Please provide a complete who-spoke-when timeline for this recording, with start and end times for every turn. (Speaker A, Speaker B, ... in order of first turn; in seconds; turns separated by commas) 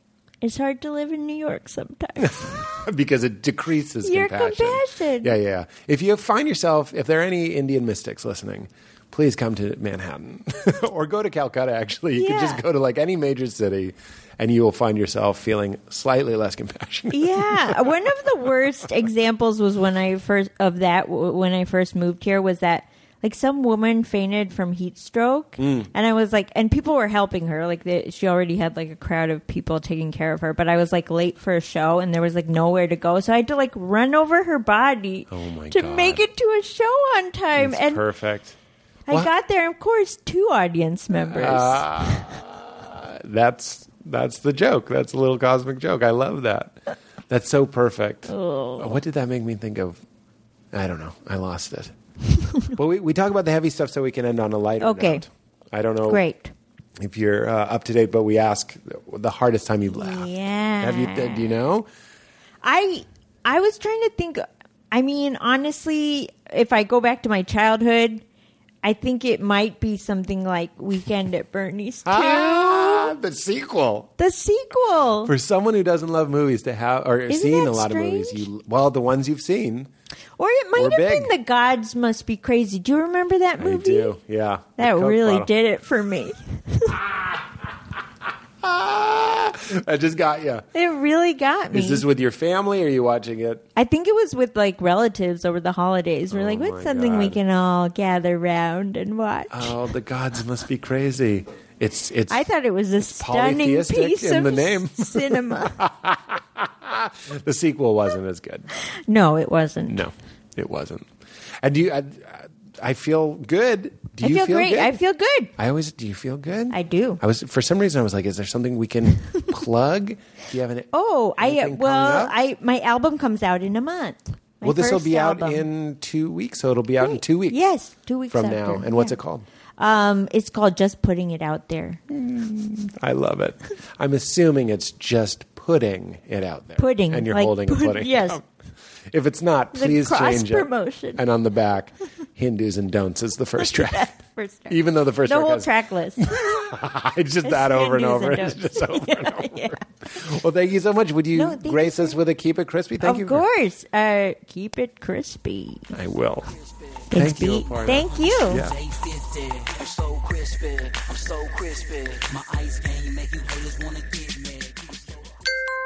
Speaker A: 0.4-2.6, Speaker B: 2.2-18.5, Speaker A: 4.0-5.3, Speaker A: 12.1-12.6, Speaker A: 17.1-38.0, Speaker B: 25.6-25.9, Speaker B: 35.3-36.2, Speaker B: 37.6-38.5, Speaker A: 39.1-42.3, Speaker B: 41.2-46.8, Speaker B: 47.3-50.0, Speaker A: 48.3-48.9, Speaker B: 50.7-51.9, Speaker B: 52.7-56.2, Speaker A: 54.8-55.2, Speaker A: 56.1-56.5, Speaker B: 57.0-61.9, Speaker A: 59.9-61.5, Speaker A: 62.6-68.2, Speaker A: 68.8-73.1, Speaker B: 72.0-74.1, Speaker A: 74.2-75.3, Speaker B: 75.2-79.9, Speaker A: 77.3-78.4, Speaker A: 80.4-84.1, Speaker B: 80.8-81.3, Speaker B: 83.6-85.5, Speaker A: 84.8-87.0, Speaker B: 87.0-87.5, Speaker B: 88.6-90.7, Speaker A: 90.7-92.0, Speaker B: 91.7-93.7, Speaker A: 93.8-99.7, Speaker B: 96.3-97.4, Speaker B: 99.5-102.5, Speaker A: 102.3-105.8, Speaker B: 103.0-108.7, Speaker A: 108.9-110.0, Speaker B: 109.9-111.1, Speaker B: 111.6-115.0, Speaker A: 114.2-115.5, Speaker B: 115.6-122.3, Speaker A: 116.7-117.2, Speaker A: 120.9-125.6, Speaker B: 124.6-127.6, Speaker A: 127.0-129.1, Speaker B: 128.3-129.4, Speaker A: 129.8-132.0, Speaker B: 132.1-138.4, Speaker A: 136.8-138.4, Speaker B: 139.1-144.1, Speaker A: 139.7-141.2, Speaker A: 143.6-146.3, Speaker B: 144.7-153.4, Speaker A: 147.4-149.8, Speaker A: 151.3-152.1, Speaker A: 153.0-155.9, Speaker B: 155.9-156.5, Speaker C: 156.5-165.3, Speaker A: 157.1-158.6, Speaker B: 157.1-158.8